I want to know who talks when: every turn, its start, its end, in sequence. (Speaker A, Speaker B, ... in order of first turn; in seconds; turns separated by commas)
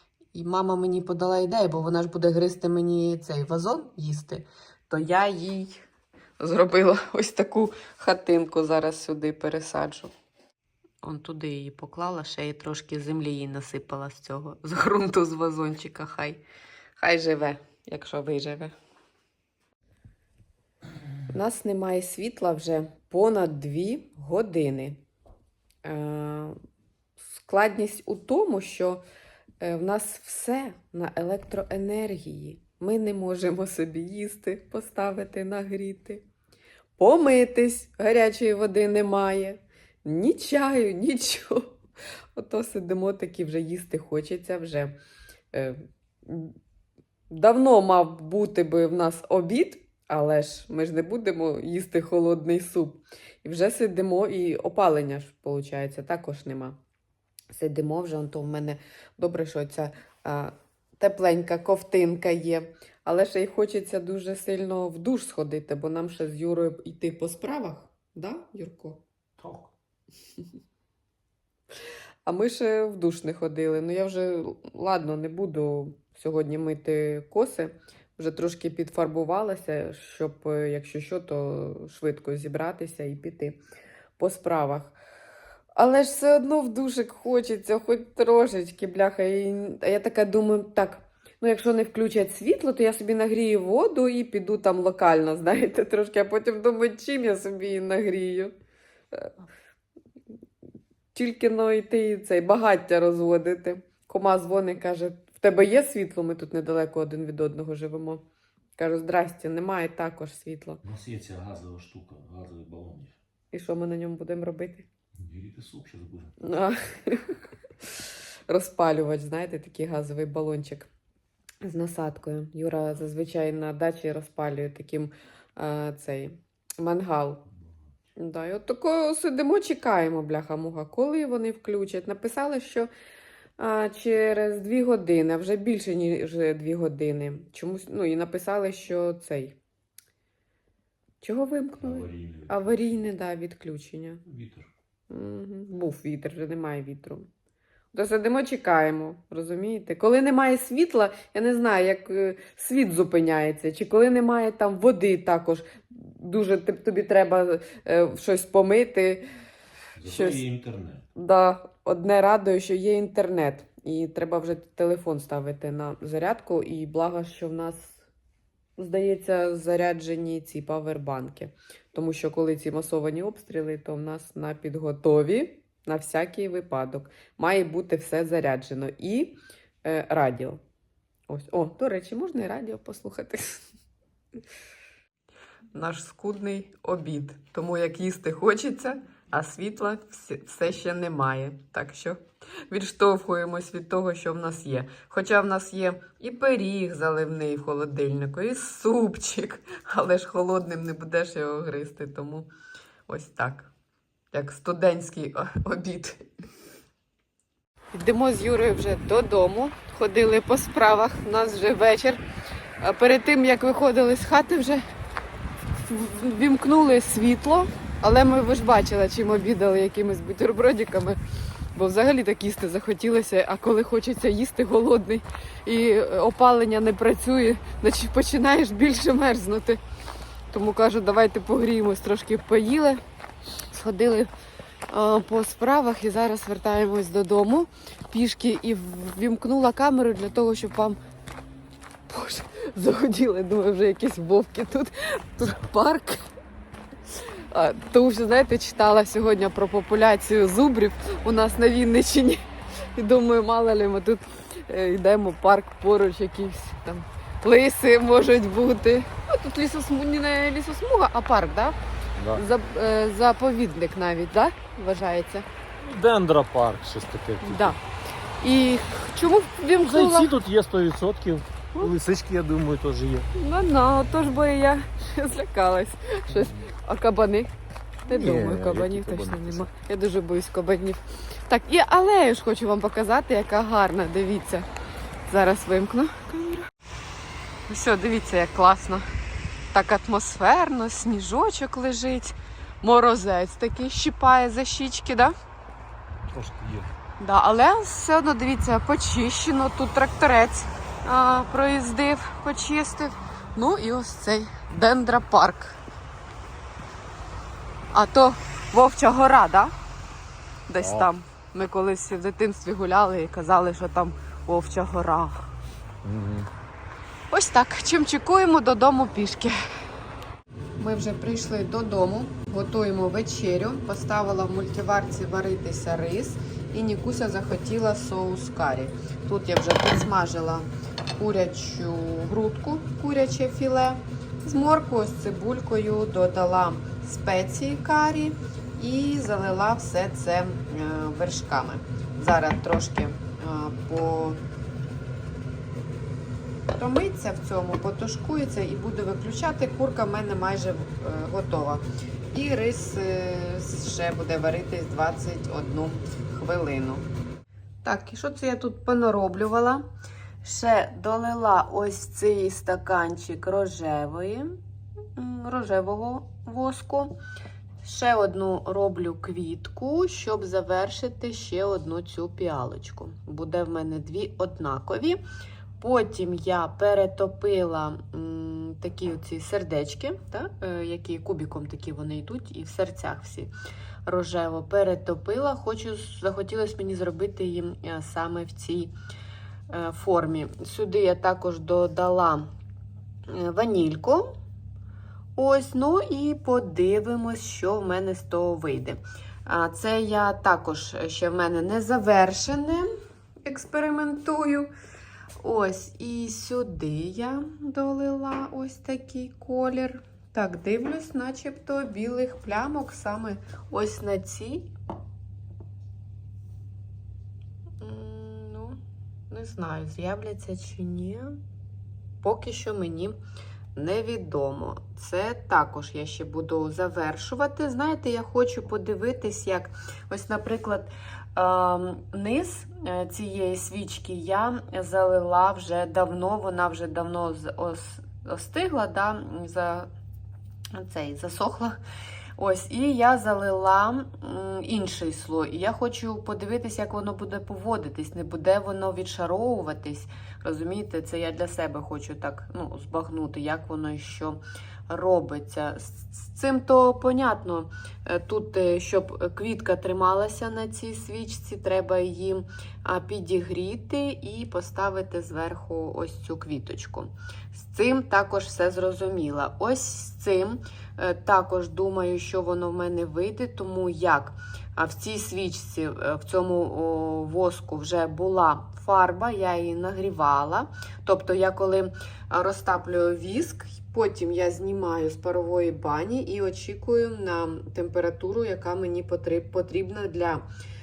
Speaker A: 0.3-5.8, Speaker A: 6.4-10.1, Speaker A: 11.0-16.4, Speaker A: 17.0-18.7, Speaker A: 21.3-25.0, Speaker A: 25.8-26.5, Speaker A: 27.2-29.0, Speaker A: 29.6-36.2, Speaker A: 37.0-41.7, Speaker A: 42.3-44.9, Speaker A: 45.5-46.5, Speaker A: 47.3-56.8, Speaker A: 57.5-69.0, Speaker B: 69.4-69.7, Speaker A: 72.2-83.6, Speaker A: 84.2-85.0, Speaker A: 85.8-98.5, Speaker A: 101.1-108.2, Speaker A: 108.8-110.8, Speaker B: 110.8-113.2, Speaker A: 113.5-114.9, Speaker B: 115.2-116.4, Speaker A: 116.4-117.9, Speaker A: 118.5-120.9, Speaker A: 121.6-127.5, Speaker A: 128.2-132.9, Speaker A: 133.6-139.6, Speaker A: 141.2-144.2, Speaker B: 141.8-142.9, Speaker B: 144.2-144.7, Speaker A: 145.1-147.3, Speaker A: 147.9-159.2, Speaker B: 160.0-161.0, Speaker A: 160.0-160.4, Speaker A: 161.2-168.0, Speaker A: 168.8-179.3, Speaker A: 179.8-180.6, Speaker A: 181.3-183.6, Speaker A: 185.7-202.5, Speaker A: 203.1-203.7, Speaker A: 204.3-206.2, Speaker A: 207.9-212.2, Speaker A: 212.8-214.8, Speaker A: 215.8-221.2, Speaker A: 221.7-229.8, Speaker A: 230.5-233.0, Speaker A: 233.7-234.3, Speaker A: 234.9-241.0, Speaker A: 242.1-246.2, Speaker A: 247.5-252.4, Speaker A: 252.9-261.8, Speaker A: 262.3-265.5, Speaker C: 265.8-267.7, Speaker A: 267.4-267.8, Speaker A: 268.4-270.3, Speaker C: 269.8-273.3, Speaker A: 273.3-277.5, Speaker A: 278.1-284.7, Speaker C: 278.1-279.7, Speaker A: 285.3-286.7, Speaker A: 287.7-289.1, Speaker A: 289.7-295.3, Speaker C: 296.3-296.8, Speaker B: 296.4-296.8, Speaker A: 297.2-305.8, Speaker A: 307.9-309.7, Speaker A: 310.7-315.5, Speaker C: 310.8-311.1, Speaker C: 316.0-316.5, Speaker A: 317.3-319.6, Speaker A: 320.8-344.4, Speaker A: 346.7-357.1, Speaker A: 357.8-359.8, Speaker A: 360.4-364.5, Speaker A: 365.1-367.1, Speaker A: 367.8-375.2, Speaker A: 375.8-383.5, Speaker A: 384.1-388.9, Speaker A: 389.7-392.4, Speaker A: 393.3-394.3, Speaker A: 395.4-402.9, Speaker A: 403.4-404.7, Speaker A: 405.4-414.7, Speaker A: 417.8-418.8, Speaker A: 419.3-421.3, Speaker A: 422.2-423.2, Speaker A: 423.8-439.9, Speaker A: 440.7-441.8, Speaker A: 442.4-490.4